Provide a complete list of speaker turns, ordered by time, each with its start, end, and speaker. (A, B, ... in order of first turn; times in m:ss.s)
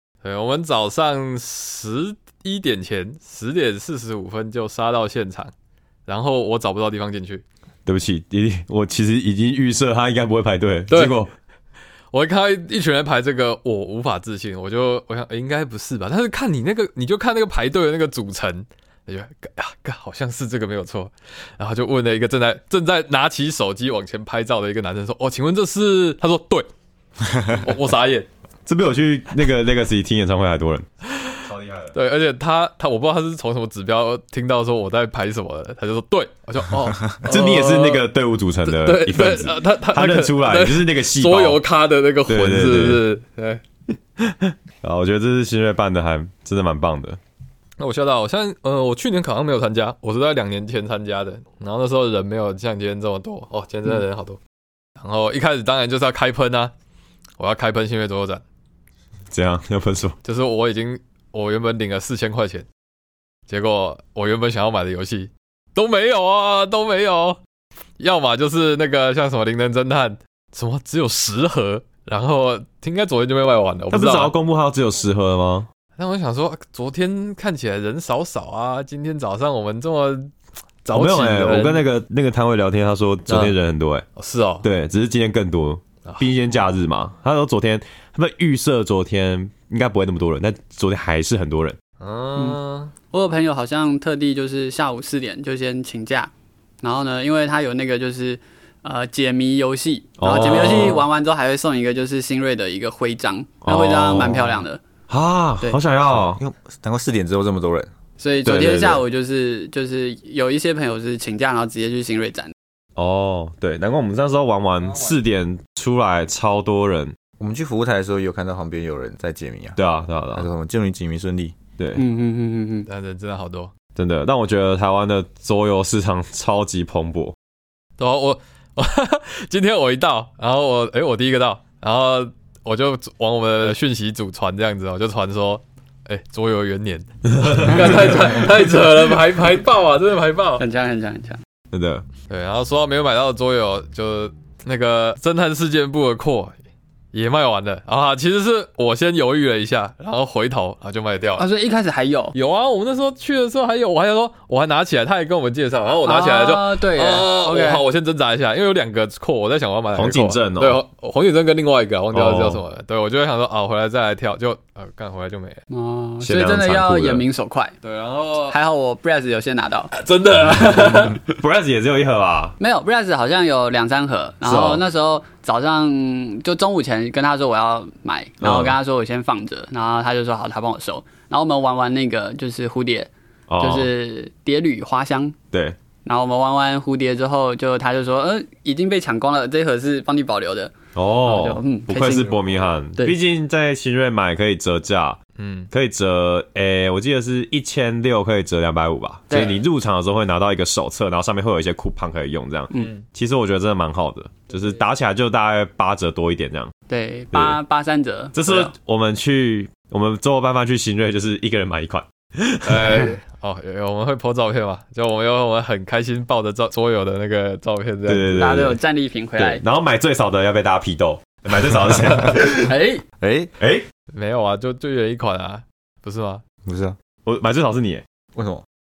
0:00.2-0:05.5 A
0:06.1-0:07.4 A
0:07.9-0:11.3 B
0:10.9-0:11.2 A
0:12.1-0:26.7 A
0:27.4-0:28.3 A
0:28.7-0:30.9 B
0:31.4-0:31.9 B
0:31.9-0:38.1 A
0:37.2-0:41.6 B
0:38.6-0:43.6 A
0:42.3-0:43.1 B
0:44.2-0:47.2 B
0:47.8-0:54.4 A
0:55.0-0:56.7 A
0:57.4-0:58.4 A
0:59.3-1:00.2 B
1:00.2-1:02.7 A
1:03.5-1:07.4 A
1:08.0-1:14.3 A
1:13.9-1:15.7 B
1:16.0-1:20.3 A
1:20.8-1:21.8 A
1:20.9-1:24.1 B
1:23.3-1:23.6 A
1:24.2-1:24.7 A
1:24.6-1:31.8 B
1:32.0-1:32.9 A
1:33.1-1:36.3 C
1:36.8-1:44.8 C
1:40.2-1:41.0 B
1:43.6-1:46.4 B
1:46.2-1:47.9 D
1:48.2-1:52.5 C
1:48.4-1:49.0 B
1:53.0-1:57.2 B
1:57.4-1:59.8 D
1:59.8-2:00.5 B
2:00.3-2:01.6 D
2:01.8-2:02.0 B
2:02.0-2:02.9 C
2:02.9-2:03.7 A
2:04.0-2:07.4 B
2:08.0-2:20.6 A
2:17.3-2:18.3 B
2:20.6-2:21.4 C
2:21.7-2:22.0 B
2:22.3-2:26.6 A
2:27.1-2:31.5 A
2:31.4-2:32.3 C
2:32.3-2:45.6 A
2:36.0-2:37.8 C
2:40.0-2:40.8 B
2:42.1-2:42.6 B
2:45.7-2:47.8 C
2:46.2-2:47.2 B
2:47.8-2:48.6 A
2:48.5-2:49.9 C
2:49.9-2:51.3 A
2:50.4-2:52.6 B
2:52.6-3:05.4 C
2:54.4-2:54.8 B
2:58.4-2:58.8 B
3:03.5-3:03.9 B
3:06.0-3:10.7 C
3:11.0-3:15.2 B
3:11.3-3:12.4 C
3:15.4-3:15.7 A
3:15.7-3:26.7 B
3:19.3-3:19.6 C
3:22.8-3:23.0 A
3:26.9-3:28.7 C
3:27.3-3:27.6 B
3:28.3-3:33.1 B
3:32.6-3:38.6 A
3:38.1-3:38.8 B
3:38.3-3:39.6 C
3:39.4-3:42.8 B
3:42.7-3:43.0 C
3:43.2-3:43.5 D
3:43.6-3:43.8 B
3:44.1-3:46.4 A
3:46.6-3:47.0 D
3:47.3-3:48.0 B
3:48.4-3:48.6 D